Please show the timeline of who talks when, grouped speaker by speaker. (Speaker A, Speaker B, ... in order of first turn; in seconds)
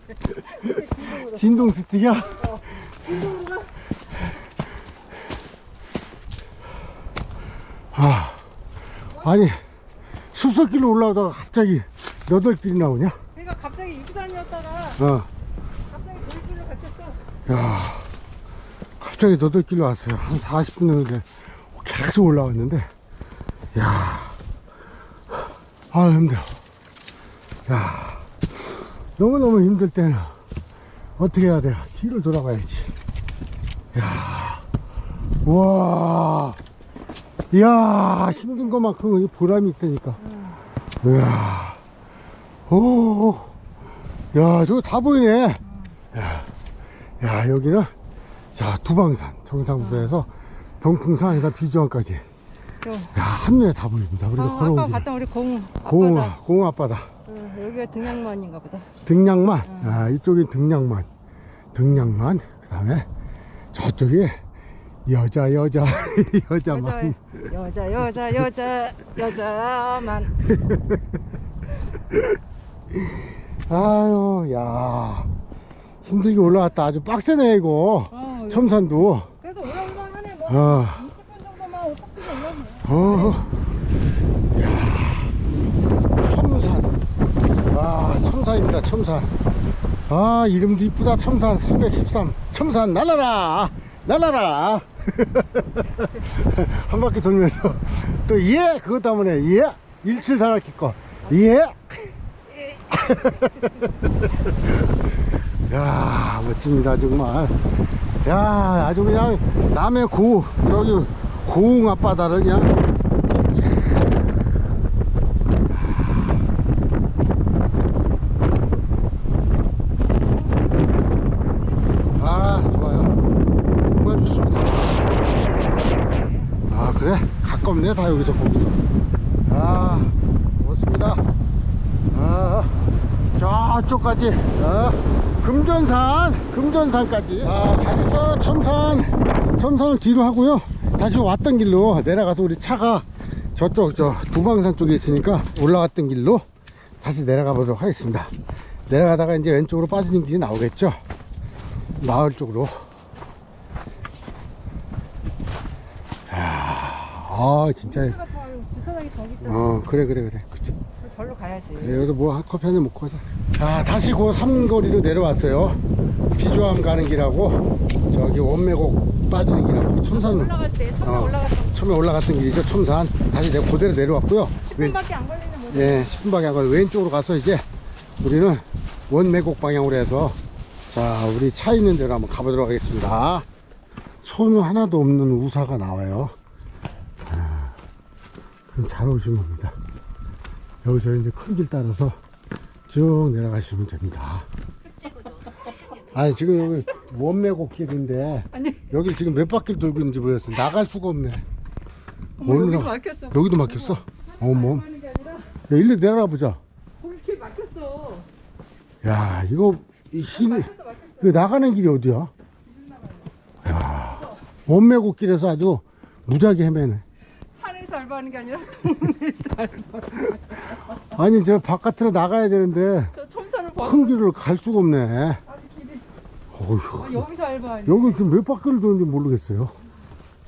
Speaker A: 0.5-1.7, 2.3-3.7, 9.2-9.4, 13.3-15.0, 15.9-17.3, 40.2-40.6, 49.8-50.2, 52.8-53.1, 54.4-56.3, 57.3-58.9, 59.6-60.1, 66.7-70.4, 78.1-78.8, 79.4-83.4, 125.2-126.5, 128.1-128.4, 157.8-159.7, 161.0-162.1, 170.1-171.8, 174.7-176.3, 198.5-198.9, 202.4-205.6, 207.0-208.3, 210.3-211.7, 212.7-213.3, 217.5-221.2, 223.1-224.2, 225.5-226.1, 227.0-228.2
Speaker B: 1.2-2.4, 7.9-8.4, 9.2-9.6, 10.3-13.2, 15.0-15.3, 17.5-18.1, 19.0-22.9, 23.7-24.4, 25.9-26.6, 27.7-30.4, 31.2-33.0, 33.9-34.7, 35.4-36.6, 37.5-40.2, 41.0-41.8, 42.7-43.5, 44.3-45.6, 46.1-46.5, 47.2-47.9, 48.5-52.2, 53.1-55.1, 55.9-57.1, 59.0-61.1, 61.7-63.1, 63.7-64.4, 65.1-67.3, 70.5-71.0, 72.9-75.3, 76.0-79.3, 80.5-81.0, 82.8-83.5, 84.5-85.3, 86.2-87.0, 87.7-89.3, 90.1-102.2, 102.8-103.9, 104.7-107.6, 108.2-112.7, 122.2-123.2, 123.9-125.0, 126.7-128.8, 129.5-131.2, 132.1-132.8, 133.4-146.4, 147.0-148.3, 148.9-151.0, 152.0-152.9, 156.3-158.2, 159.4-160.8, 161.8-165.8, 166.4-175.0, 175.7-177.7, 178.2-180.4, 180.9-183.5, 184.2-186.3, 187.2-187.8, 188.7-189.8, 190.8-192.2, 192.9-194.5, 196.1-201.4, 202.4-204.8, 205.7-206.6, 209.0-210.7, 211.2-212.3, 213.6-217.0, 221.1-223.1, 223.8-225.4, 226.5-227.2, 227.9-229.7